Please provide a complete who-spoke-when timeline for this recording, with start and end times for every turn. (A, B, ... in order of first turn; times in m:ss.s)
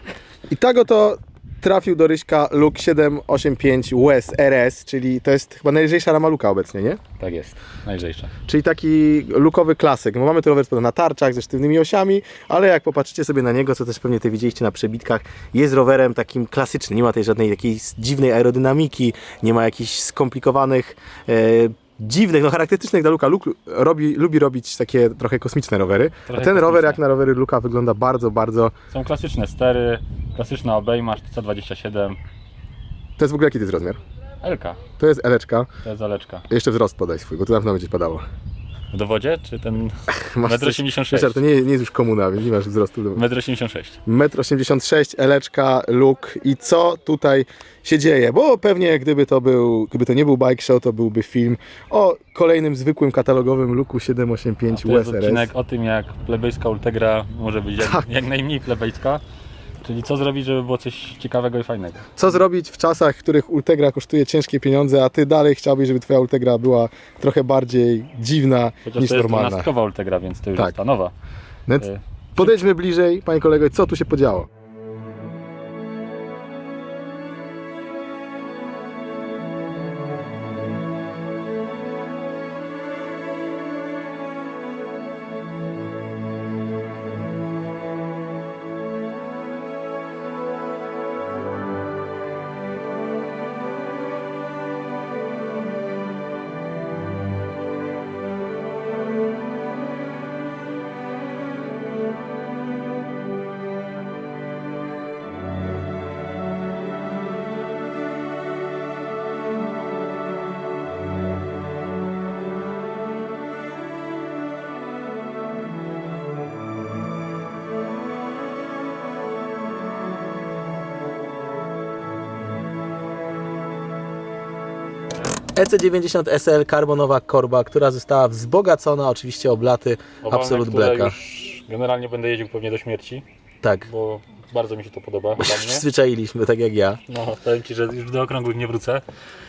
0:00.5-0:07.0 A
0:07.2-0:08.3 B
0:08.5-0:28.7 A
0:26.3-0:27.0 B
0:28.9-0:32.2 B
0:33.2-0:34.0 A
0:34.4-0:34.8 B
0:35.0-0:35.7 A
0:35.8-0:36.5 B
0:36.5-0:38.3 A
0:38.9-0:41.4 B
0:40.1-0:43.2 A
0:43.2-0:44.0 B
0:44.1-0:55.5 A
0:54.7-0:59.2 B
0:59.8-1:02.1 B
1:02.2-1:09.7 A
1:08.8-1:11.1 B
1:11.7-1:14.5 A
1:11.8-1:12.6 B
2:05.6-2:11.1 A
2:10.2-2:13.2 B
2:13.6-2:13.9 A
2:13.9-2:15.8 B
2:15.4-2:17.0 A
2:17.1-2:19.0 B